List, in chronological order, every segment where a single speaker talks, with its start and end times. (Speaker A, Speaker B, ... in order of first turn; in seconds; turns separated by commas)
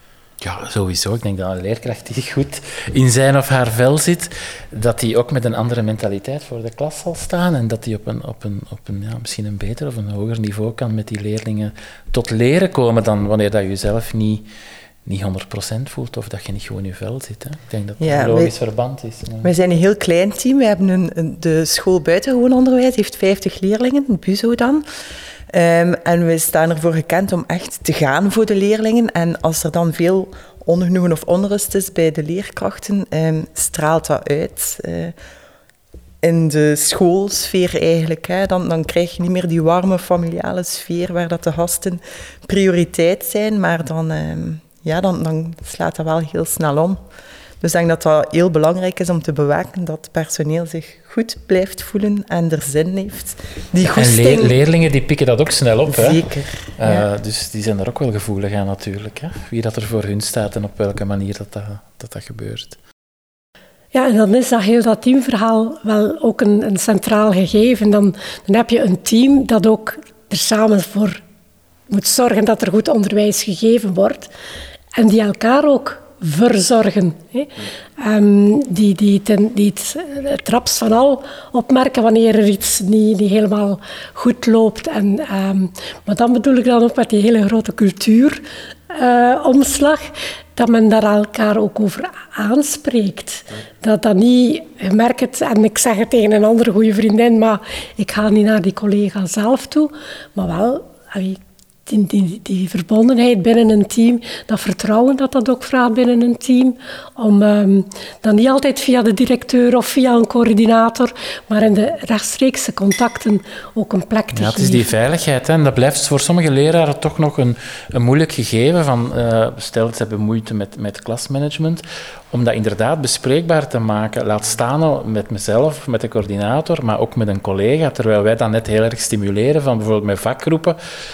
Speaker A: 0.4-14.4, Speaker A: 15.1-19.5, Speaker B: 18.0-18.5, Speaker B: 19.4-24.8, Speaker B: 25.5-35.1, Speaker B: 36.2-47.0, Speaker B: 47.6-54.6, Speaker A: 53.9-62.8, Speaker B: 55.9-57.0, Speaker C: 63.9-71.2, Speaker C: 71.9-74.3, Speaker C: 74.9-114.9, Speaker A: 114.3-130.8